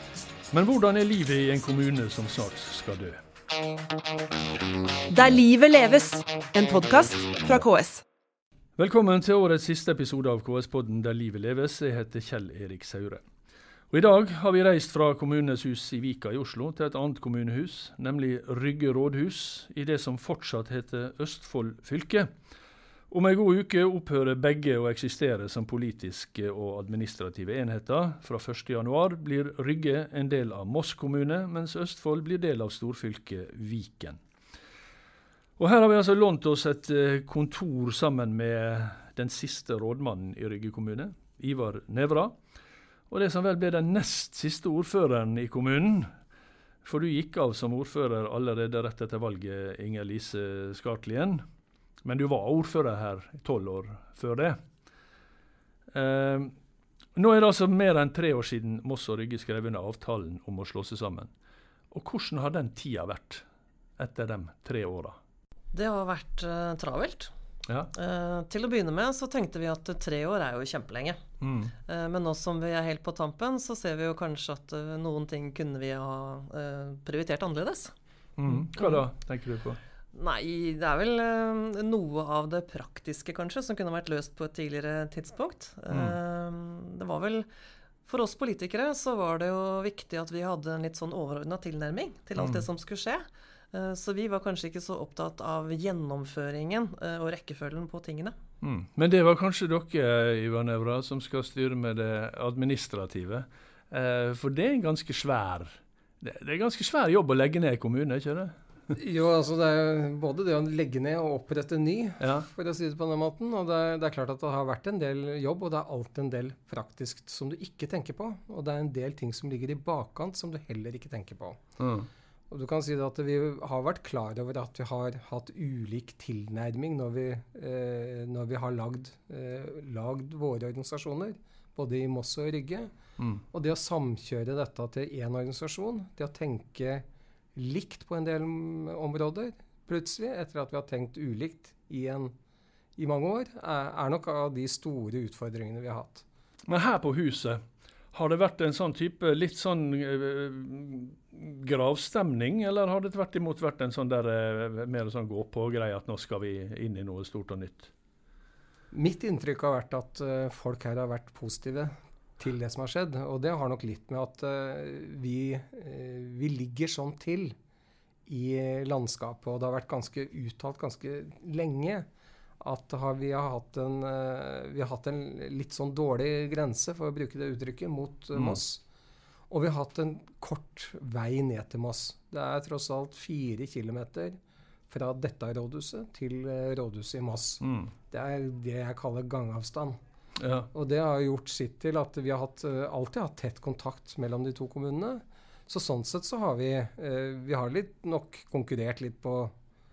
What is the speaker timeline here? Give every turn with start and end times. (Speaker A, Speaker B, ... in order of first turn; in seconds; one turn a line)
Speaker A: 0.5-3.2
Speaker B: 5.1-8.0
Speaker A: 8.8-13.2
Speaker A: 13.9-22.3
Speaker A: 23.1-34.2
Speaker A: 35.6-42.3
Speaker A: 43.1-46.1
Speaker A: 46.8-51.4
Speaker A: 52.0-54.6
Speaker A: 55.9-56.5
Speaker A: 57.1-61.3
Speaker A: 61.9-63.4
Speaker A: 64.0-65.2
Speaker C: 65.7-67.3
Speaker A: 67.7-67.9
Speaker C: 67.9-71.2
Speaker A: 71.4-71.7
Speaker C: 71.8-77.9
Speaker A: 78.4-79.8
Speaker C: 78.8-79.0
Speaker C: 80.1-87.5
Speaker A: 85.9-86.2
Speaker C: 88.0-98.3
Speaker A: 92.4-92.6
Speaker A: 98.6-108.5
Speaker D: 108.9-121.6
Speaker A: 112.2-112.5
Speaker A: 121.8-122.1
Speaker D: 122.5-132.9
Speaker D: 133.5-142.3
Speaker D: 142.9-146.2
Speaker A: 146.7-147.6
Speaker A: 148.1-157.9
Speaker D: 158.9-167.5
Speaker D: 168.3-172.1
Speaker D: 172.6-178.8
Speaker D: 179.5-184.4
Speaker D: 184.9-190.0
Speaker A: 187.6-187.9
Speaker A: 190.4-190.7
Speaker D: 190.7-199.5